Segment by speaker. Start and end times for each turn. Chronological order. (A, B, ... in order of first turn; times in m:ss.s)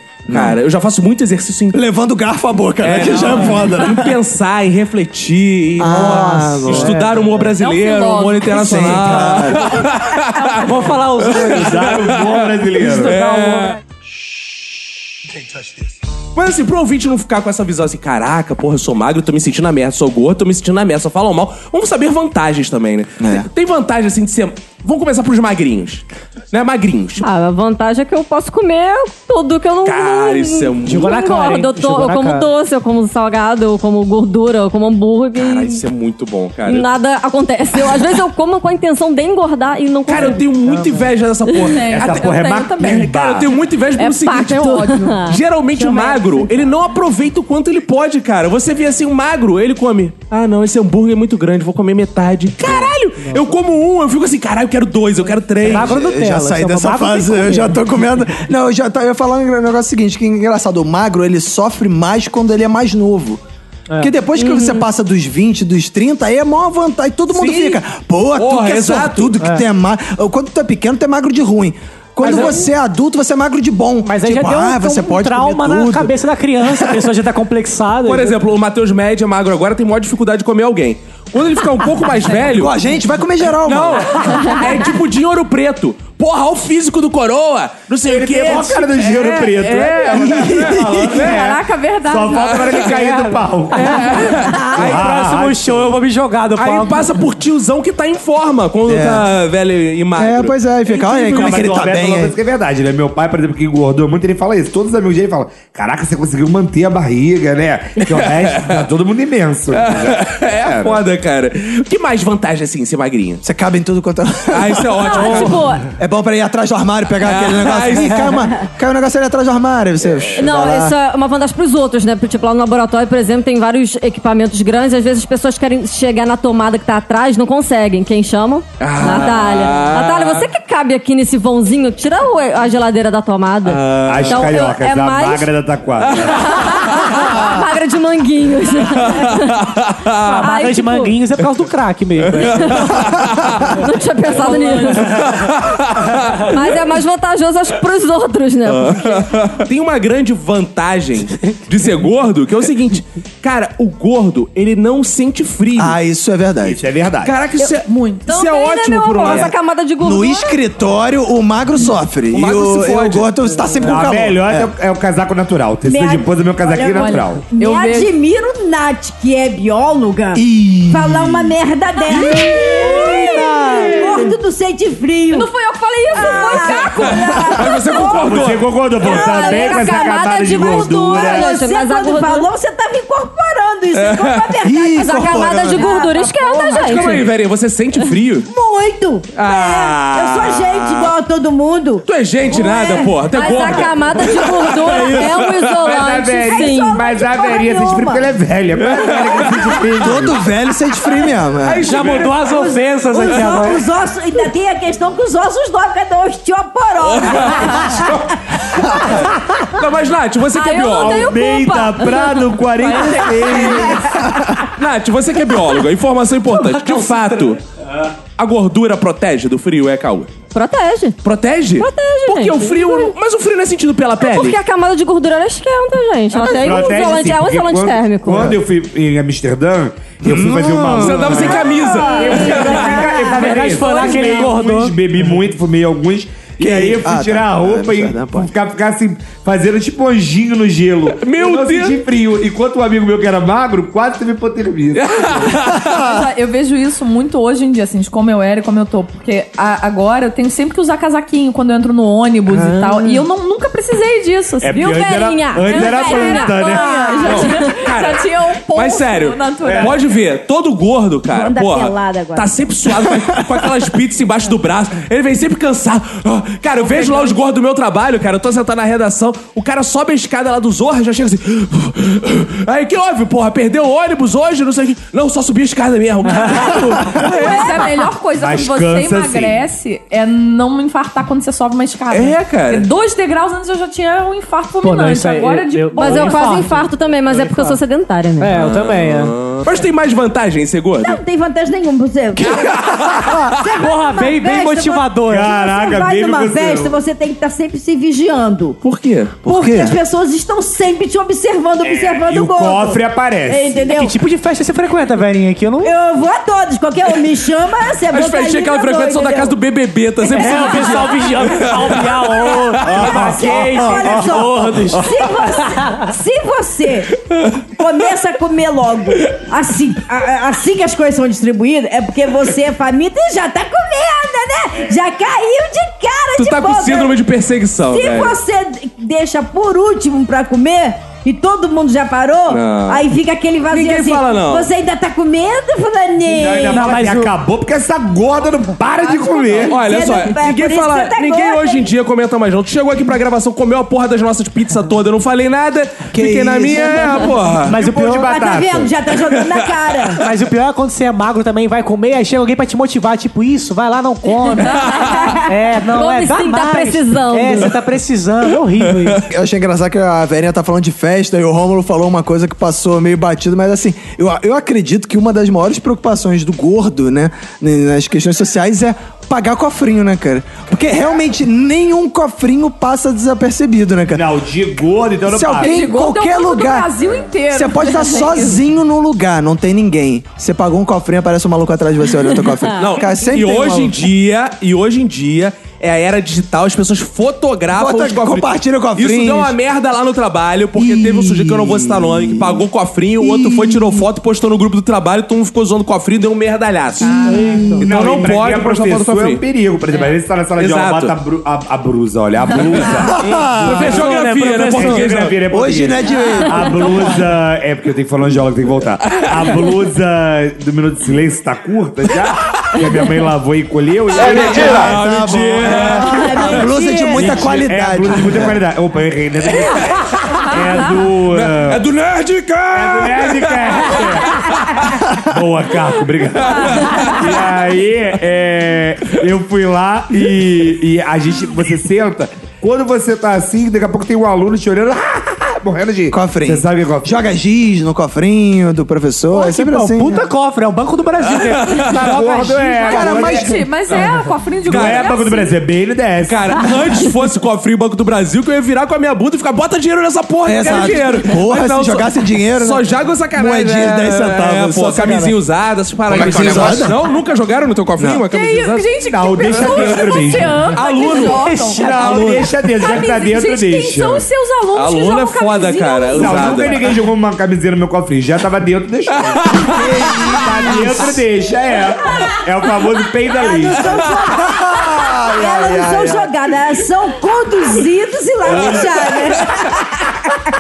0:00.3-0:00.6 A
0:00.3-0:01.8 B
0:01.7-0:04.2 A
0:02.8-0:13.8 B
0:05.8-0:07.1 A
0:05.8-0:07.5 C
0:07.5-0:09.9 D
0:08.5-0:09.6 A
0:10.4-0:11.0 D
0:10.6-0:13.8 C
0:11.4-0:13.2 E
0:16.3-0:27.2 B
0:23.2-0:23.5 A
0:27.2-0:35.8 F
0:29.8-0:31.1 B
0:30.8-0:32.5 C
0:35.4-0:36.9 B
0:36.7-0:40.5 F
0:40.1-0:56.0 B
0:40.2-0:41.1 C
0:41.6-0:43.1 D
0:41.9-0:43.5 E
0:44.0-0:45.4 D
0:44.2-0:45.4 F
0:53.2-0:53.5 C
0:55.6-0:58.0 C
0:55.6-1:03.4 A
1:03.9-1:04.1 C
1:04.0-1:16.2 A
1:04.4-1:04.8 F
1:07.3-1:07.8 B
1:08.3-1:09.4 B
1:09.4-1:09.6 C
1:12.2-1:12.7 C
1:12.2-1:12.6 B
1:14.0-1:18.4 C
1:16.7-1:17.0 A
1:18.0-1:22.8 B
1:22.5-1:24.6 A
1:23.6-1:31.5 B
1:28.0-1:35.9 E
1:29.8-1:30.2 D
1:30.2-1:31.2 A
1:31.2-1:32.9 D
1:32.3-1:32.9 B
1:33.7-1:37.2 C
1:33.7-1:35.0 B
1:36.6-1:40.6 B
1:38.8-1:39.3 A
1:40.2-1:42.3 A
1:41.2-1:51.0 E
1:48.0-1:48.8 B
1:49.7-1:53.4 B
1:53.4-2:00.9 A
1:54.5-1:55.7 B
1:55.0-1:55.8 F
1:57.2-1:58.5 B
2:00.4-2:15.5 F
2:08.8-2:10.4 B
2:13.6-2:14.5 B
2:14.0-2:16.7 E
2:16.1-2:16.5 B
2:16.4-2:19.7 F
2:18.9-2:20.4 B
2:20.2-2:23.0 C
2:20.4-2:21.1 F
2:22.4-2:23.8 B
2:22.4-2:23.1 F
2:23.7-2:25.2 F
2:24.4-2:24.8 C
2:24.5-2:24.8 D
2:24.9-2:26.6 B
2:26.4-2:29.3 F
2:28.6-2:36.0 B
2:35.8-2:36.8 A
2:36.6-2:37.3 E
2:37.2-2:39.5 B
2:37.8-2:38.2 D
2:38.3-2:40.6 F
2:39.2-2:44.7 A
2:42.3-2:43.3 B
2:43.8-2:47.4 E
2:45.8-2:55.5 G
2:46.9-2:48.1 D
2:50.3-2:51.5 A
2:52.2-2:54.0 A
2:55.3-2:57.9 F
2:56.1-3:07.1 G
2:56.2-2:58.6 B
2:56.3-2:56.7 D
2:58.2-3:01.5 E
2:59.0-3:02.5 F
3:03.9-3:04.5 B
3:04.6-3:05.9 A
3:04.9-3:07.2 F
3:06.6-3:07.2 A
3:06.8-3:08.5 B
3:08.5-3:13.8 G
3:09.3-3:11.1 B
3:12.0-3:15.4 B
3:13.3-3:17.0 F
3:15.8-3:20.4 E
3:16.3-3:18.3 G
3:18.9-3:19.8 B
3:20.0-3:21.9 A
3:21.6-3:22.5 B
3:21.8-3:23.9 C
3:22.4-3:29.0 G
3:27.0-3:28.1 B
3:29.1-3:31.3 B
3:30.5-3:34.0 F
3:30.8-3:34.4 E
3:34.7-3:37.6 B
3:36.5-3:37.5 C
3:38.4-3:40.3 B
3:40.5-3:41.2 F
3:41.2-3:44.6 B
3:41.8-3:43.1 F
3:44.2-3:48.6 F
3:46.4-4:05.5 E
3:50.2-3:51.6 A
3:50.9-3:53.0 B
3:52.0-3:53.6 F
3:53.3-3:55.0 C
3:56.6-3:58.5 A
4:01.1-4:02.0 B
4:04.9-4:06.1 B
4:05.8-4:06.1 A
4:05.9-4:20.1 D
4:12.6-4:13.2 F
4:14.6-4:17.4 E
4:14.7-4:17.7 F
4:17.2-4:38.1 B
4:19.6-4:19.9 E
4:21.3-4:22.5 G
4:26.8-4:27.4 D
4:36.3-4:36.6 C
4:36.7-4:46.7 D
4:37.4-4:37.8 G
4:38.3-4:39.6 E
4:42.1-4:42.9 B
4:44.8-4:47.8 C
4:45.9-4:48.6 F
4:48.4-4:49.4 C
4:48.5-4:51.2 B
4:51.0-4:58.8 G
4:52.4-4:53.4 B
4:53.7-4:55.5 C
4:55.3-4:57.0 E
4:58.8-4:59.4 B
4:59.4-5:00.0 A
4:59.4-5:04.2 G
5:01.8-5:03.9 E
5:03.9-5:05.9 C
5:05.8-5:09.5 G
5:08.1-5:12.6 B
5:10.2-5:11.0 G
5:10.3-5:16.0 C
5:12.8-5:14.4 E
5:12.9-5:27.2 G
5:26.4-5:28.4 B
5:27.9-5:37.0 G
5:32.5-5:33.1 B
5:33.7-5:34.7 B
5:36.2-5:39.8 E
5:36.7-5:37.3 C
5:39.0-5:41.9 G
5:39.6-5:47.7 B
5:46.1-5:47.3 A
5:47.6-5:48.3 C
5:47.6-5:48.9 E
5:48.0-5:50.3 G
5:50.2-5:54.9 C
5:54.7-5:55.0 D
5:54.8-5:55.2 B
5:55.0-5:55.5 G
5:55.4-5:59.2 C
5:55.9-5:57.7 F
5:58.8-5:59.2 B
5:59.2-6:14.2 A
6:14.1-6:15.9 E
6:15.3-6:16.9 A
6:15.6-6:18.6 D
6:17.5-6:24.0 A
6:22.2-6:22.7 F
6:22.8-6:39.4 B
6:27.7-6:29.5 A
6:30.8-6:32.6 A
6:33.2-6:34.0 A
6:37.0-6:37.8 D
6:37.3-6:37.8 C
6:37.8-6:55.0 E
6:40.6-6:41.1 B
6:43.0-6:44.0 A
6:43.5-6:45.4 B
6:43.6-6:45.0 C
6:45.5-6:46.6 A
6:46.0-6:47.3 D
6:49.1-6:49.5 B
6:54.1-6:56.6 B
6:54.2-6:58.6 A
6:55.6-6:56.1 E
6:55.9-6:57.3 G
6:57.1-7:00.0 E
6:59.5-7:00.6 B
7:00.5-7:01.8 E
7:00.5-7:00.9 D
7:01.3-7:05.0 B
7:02.7-7:04.6 E
7:05.2-7:17.2 E
7:06.3-7:07.4 B
7:06.6-7:07.1 D
7:16.1-7:20.3 A
7:19.3-7:22.9 C
7:21.4-7:22.1 B
7:21.8-7:24.0 E
7:22.7-7:25.5 D
7:22.8-7:23.6 A
7:23.9-7:24.1 B
7:24.6-7:25.1 B
7:24.7-7:26.8 E
7:26.3-7:41.5 B
7:30.4-7:35.4 A
7:36.1-7:37.0 A
7:38.0-7:38.2 A
7:38.2-7:42.2 D
7:39.0-7:40.7 E
7:41.3-7:42.7 C
7:41.7-7:44.3 E
7:42.7-7:46.9 D
7:44.7-7:47.0 B
7:46.1-7:49.7 E
7:49.2-7:50.4 B
7:49.7-7:51.0 A
7:50.3-7:54.1 E
7:53.3-7:59.9 G
7:54.4-7:56.3 A